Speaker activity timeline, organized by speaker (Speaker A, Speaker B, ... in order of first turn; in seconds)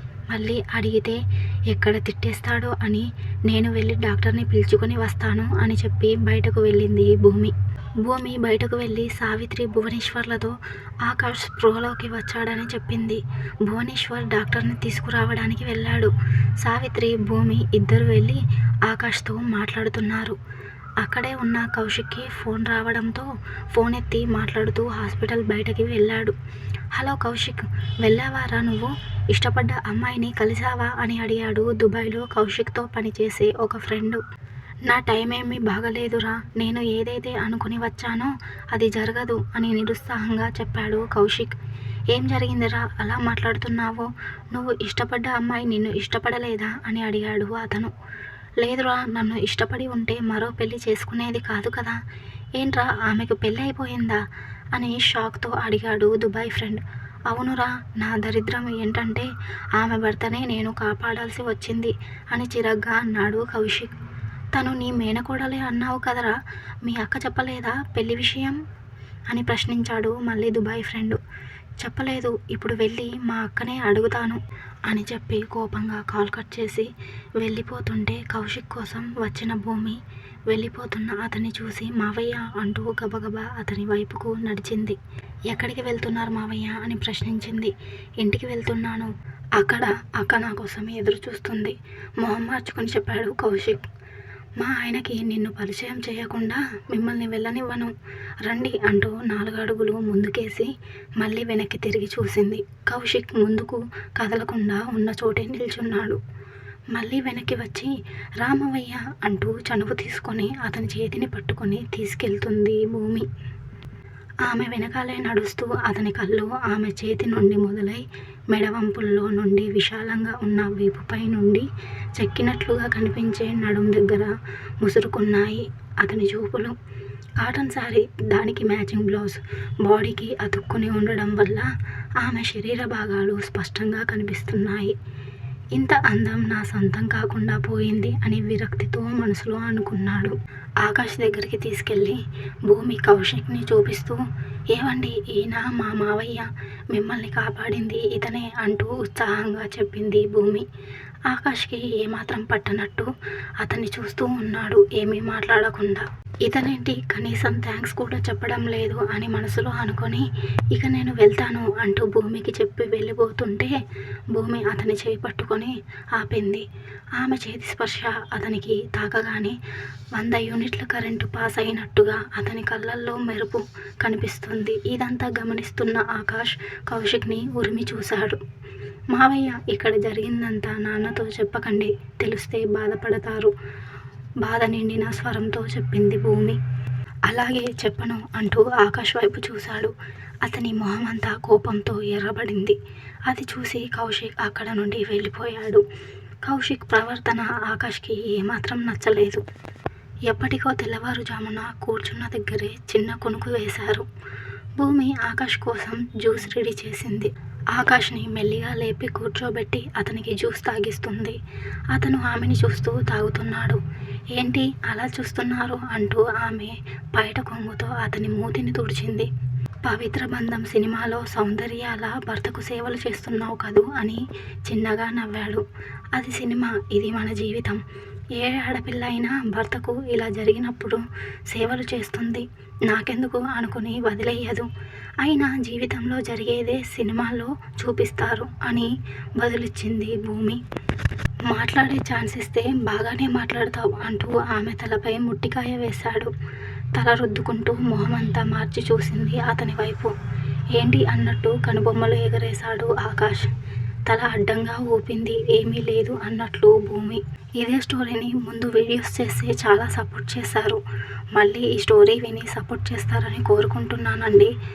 Speaker A: 0.3-20.4, 21.0-26.4, 26.9-34.2, 34.9-41.5, 42.1-47.9, 48.6-52.0, 52.6-54.2, 54.7-63.9, 64.5-68.6, 69.3-71.2, 71.8-85.0, 85.5-93.9, 94.6-97.9, 98.5-106.2, 106.9-113.3, 114.5-126.8, 127.4-135.0, 135.7-150.7, 151.3-153.1, 153.6-163.8, 164.3-166.7, 167.2-169.6, 170.2-178.4, 179.1-183.5, 184.4-186.6, 187.3-195.8, 196.4-199.4, 200.3-204.1, 204.8-211.4, 211.9-213.8, 214.3-219.3, 219.8-227.8, 228.4-234.7, 235.2-240.6, 241.5-246.3, 246.9-250.1, 250.8-253.5, 254.1-260.8, 261.4-264.5